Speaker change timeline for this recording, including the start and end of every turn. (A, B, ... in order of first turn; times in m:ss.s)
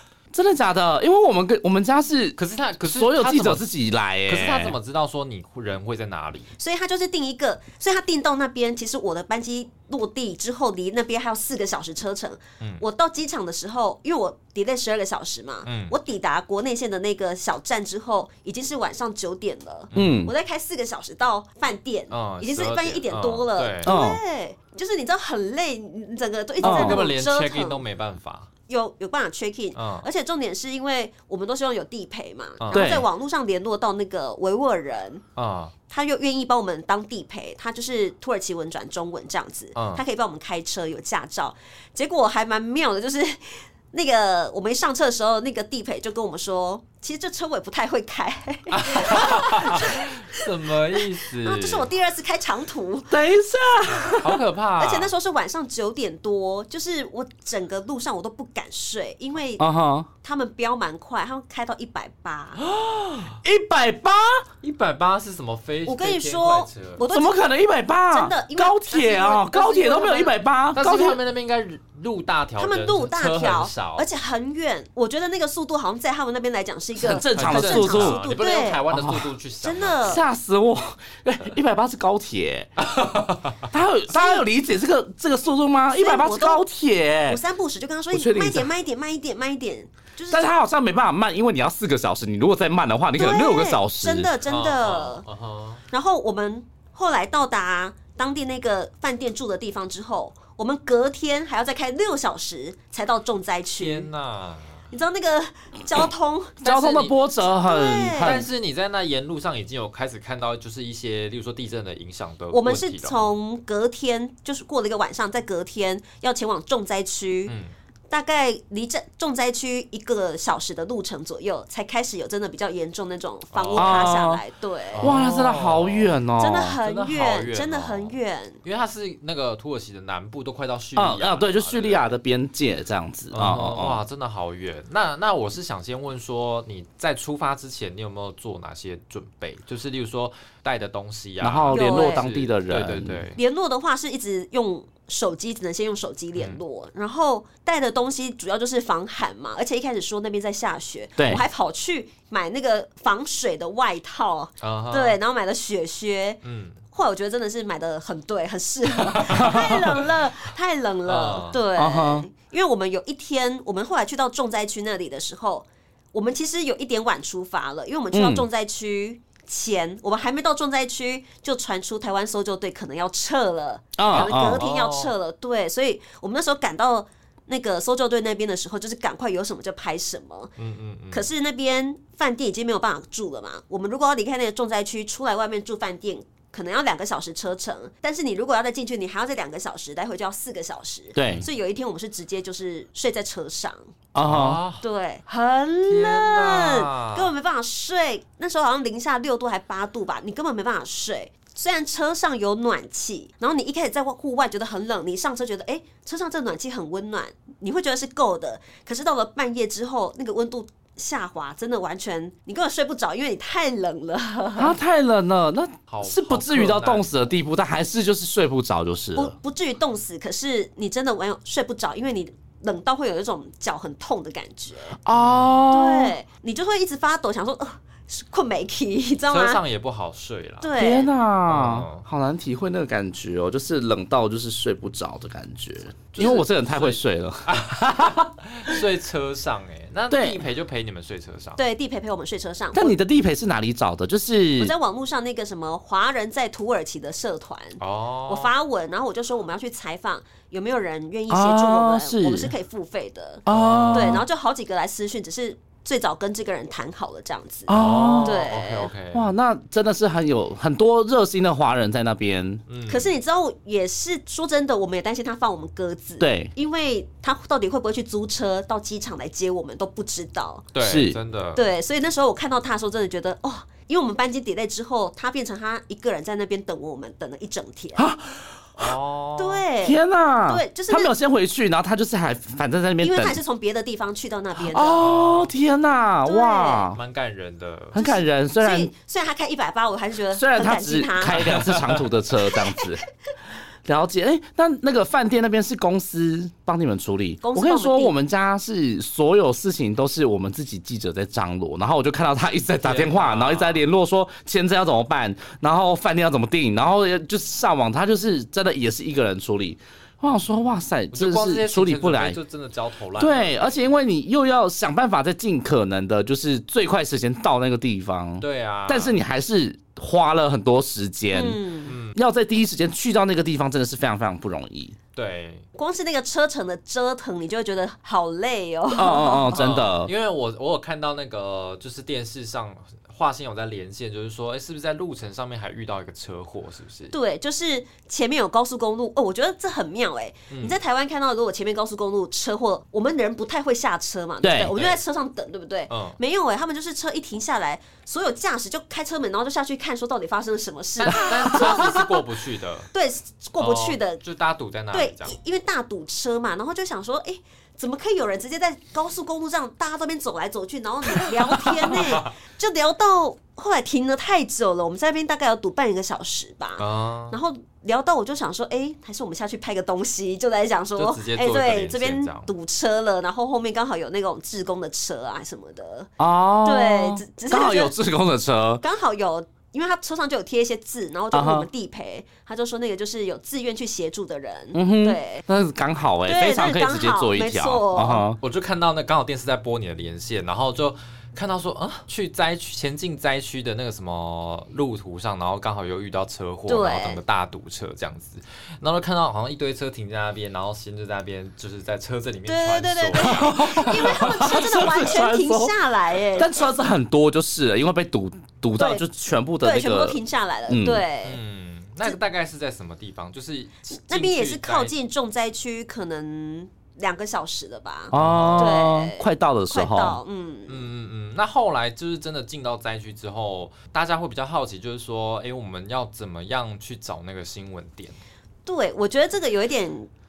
0:00.3-0:04.8 A
0:02.4-0:03.6 B
0:04.3-0:06.5 B
0:06.6-0:27.8 C
0:15.6-0:16.0 B
0:19.9-0:20.2 B
0:20.0-0:20.3 A
0:22.1-0:23.9 B
0:23.8-0:24.2 A
0:26.6-0:27.1 A
0:26.6-0:28.5 B
0:28.7-0:35.2 C
0:29.7-0:30.1 B
0:32.6-0:33.0 B
0:32.7-0:33.1 A
0:35.4-0:35.7 B
0:35.9-0:53.2 C
0:39.8-0:40.0 B
0:48.7-0:51.9 B
0:53.1-0:54.4 A
0:53.9-0:55.1 B
0:54.8-0:59.6 C
0:59.6-1:00.1 A
1:00.2-1:02.6 C
1:02.6-1:03.4 B
1:03.4-1:04.4 A
1:04.6-1:07.0 B
1:05.9-1:07.4 C
1:07.1-1:11.2 A
1:08.1-1:10.4 C
1:10.7-1:14.1 B
1:12.6-1:18.9 C
1:17.0-1:18.2 A
1:17.3-1:20.2 B
1:18.9-1:19.2 A
1:19.6-1:20.2 C
1:20.0-1:22.7 A
1:22.8-1:23.7 B
1:23.7-1:27.4 A
1:24.1-1:24.5 C
1:25.9-1:26.6 C
1:27.3-1:30.5 C
1:28.1-1:28.7 A
1:30.3-1:34.3 A
1:33.2-1:35.2 C
1:34.5-1:35.8 B
1:35.9-1:44.1 C
1:43.8-1:44.9 B
1:44.9-1:48.4 C
1:46.6-1:48.5 A
1:48.2-1:53.3 B
1:52.5-1:57.6 C
1:57.5-1:57.7 B
1:58.1-2:05.2 C
2:03.5-2:04.2 B
2:03.8-2:04.4 A
2:04.9-2:06.2 B
2:05.0-2:06.8 A
2:06.4-2:08.6 C
2:06.8-2:12.1 B
2:11.0-2:14.0 A
2:13.3-2:23.4 B
2:21.4-2:23.2 A
2:21.7-2:22.3 C
2:23.4-2:36.4 C
2:26.4-2:26.6 B
2:31.2-2:31.4 A
2:34.6-2:35.2 B
2:36.4-2:36.8 B
2:36.9-3:00.5 C
2:38.9-2:40.0 B
2:39.4-2:39.8 A
2:41.0-2:41.6 B
2:41.8-2:42.3 A
2:48.1-2:48.5 A
2:54.0-2:54.6 A
2:54.1-2:55.1 B
3:00.6-3:01.3 B
3:01.1-3:13.8 C
3:11.2-3:11.5 A
3:11.2-3:11.5 B
3:14.1-3:14.6 A
3:14.2-3:14.8 B
3:14.8-3:34.8 C
3:15.8-3:17.3 B
3:34.6-3:39.4 A
3:35.9-3:37.2 B
3:39.2-3:45.0 C
3:45.0-3:46.1 A
3:45.1-3:45.6 B
3:45.7-3:49.6 C
3:49.3-3:50.8 B
3:50.6-3:51.1 C
3:50.8-3:58.8 A
3:51.5-3:52.1 B
3:56.1-4:01.6 B
4:00.1-4:00.4 A
4:01.6-4:03.0 C
4:02.7-4:04.7 A
4:04.6-4:18.9 C
4:07.8-4:08.5 B
4:11.3-4:12.5 A
4:13.5-4:14.2 A
4:13.5-4:14.2 B
4:17.7-4:18.5 A
4:17.7-4:19.3 B
4:19.1-4:22.6 A
4:22.7-4:23.1 B
4:22.9-4:30.7 C
4:26.2-4:26.5 A
4:30.7-4:31.6 B
4:30.8-4:31.2 A
4:31.6-4:38.1 C
4:38.0-4:38.9 A
4:38.8-4:39.6 B
4:39.4-4:41.1 C
4:39.8-4:43.4 A
4:43.0-4:45.2 C
4:44.6-4:47.0 A
4:45.0-4:45.5 B
4:46.2-4:46.9 C
4:46.9-4:48.0 B
4:48.0-4:48.9 A
4:48.0-4:51.5 C
4:50.3-4:53.0 A
4:51.3-4:52.1 B
4:52.6-4:52.9 C
4:53.8-5:12.4 A
4:57.4-4:58.1 C
5:02.8-5:03.8 B
5:11.1-5:13.7 B
5:13.2-5:21.6 A
5:18.4-5:19.2 B
5:21.3-5:22.0 C
5:21.9-5:22.2 B
5:22.1-5:25.0 A
5:25.2-5:25.7 B
5:25.8-5:29.6 C
5:28.9-5:30.1 A
5:29.5-5:37.2 B
5:37.1-5:52.2 C
5:40.5-5:40.8 B
5:44.4-5:44.8 A
5:44.7-5:45.0 B
5:45.9-5:46.2 B
5:51.0-5:52.9 B
5:52.9-5:54.2 C
5:53.6-5:55.4 B
5:54.9-6:16.1 C
6:01.6-6:02.3 B
6:06.8-6:07.4 B
6:11.0-6:12.5 B
6:16.2-6:18.8 A
6:16.6-6:18.0 C
6:18.8-6:25.4 C
6:21.3-6:21.7 A
6:24.7-6:28.4 A
6:26.3-6:28.3 C
6:28.4-6:44.6 B
6:36.7-6:37.2 C
6:42.5-6:46.7 C
6:43.2-6:45.7 A
6:46.4-6:51.0 A
6:48.8-6:49.1 C
6:49.6-6:51.4 C
6:51.2-6:54.9 B
6:54.1-7:00.9 C
6:58.1-7:00.2 A
6:58.1-6:58.8 B
7:00.7-7:08.2 B
7:08.7-7:10.1 C